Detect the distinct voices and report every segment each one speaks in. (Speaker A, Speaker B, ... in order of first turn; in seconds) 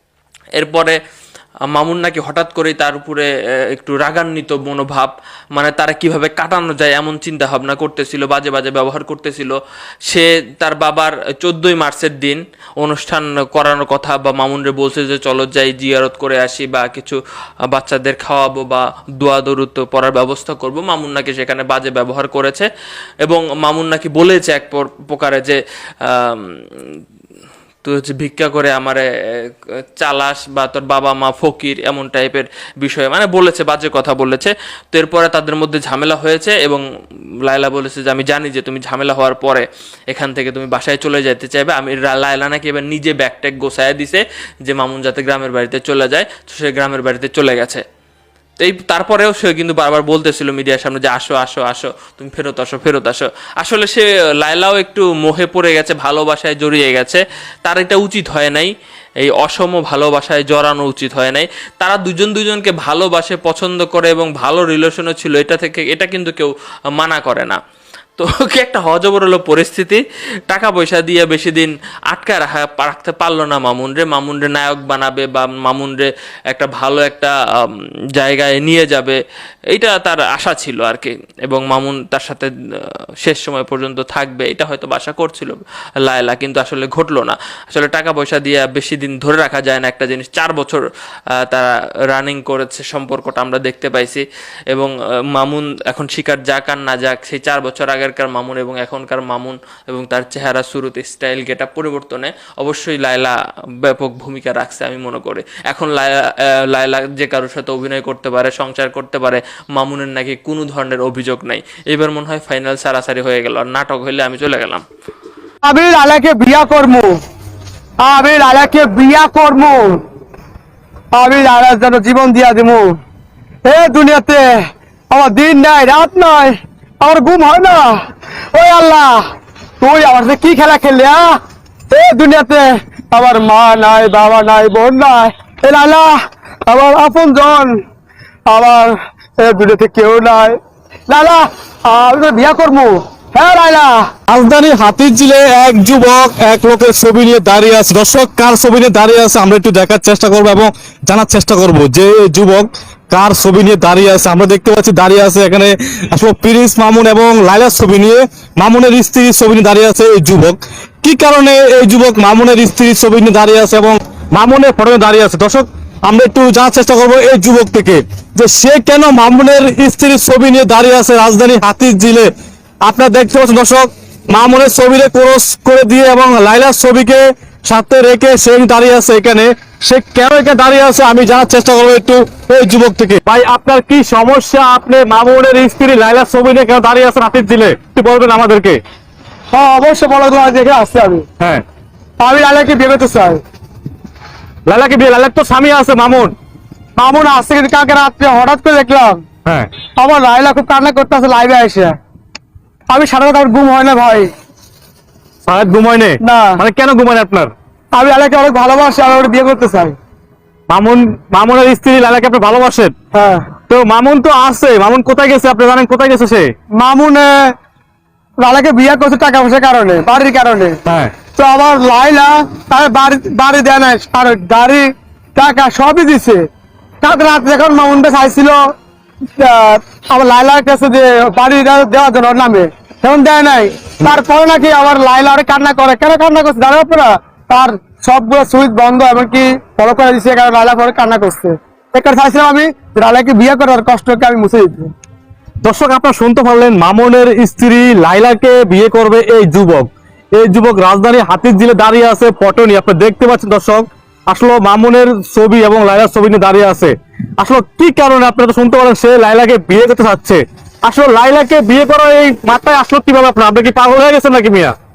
Speaker A: 0.6-1.0, 1.7-9.6, 10.1-17.2, 17.7-22.7, 23.2-27.0, 27.8-29.0, 30.0-36.8, 37.5-47.8, 48.6-67.6, 68.2-79.2, 79.7-82.5, 83.2-90.8, 91.5-106.1, 106.7-114.8
Speaker B: 115.6-117.2, 118.0-120.0, 121.1-122.9, 123.6-128.0, 128.5-129.2, 129.8-131.4, 131.9-137.8, 138.4-144.0, 189.5-191.2, 192.2-193.4, 197.0-199.2, 200.0-202.0, 202.9-204.3, 206.2-206.6, 207.9-209.9, 213.1-213.5, 216.8-217.5, 218.4-220.8, 221.3-226.4, 227.0-228.7, 229.4-244.9
Speaker C: 144.3-172.3, 172.8-188.8, 194.7-196.3, 205.4-207.5, 210.7-212.9, 213.7-216.5, 220.9-221.2, 245.6-264.7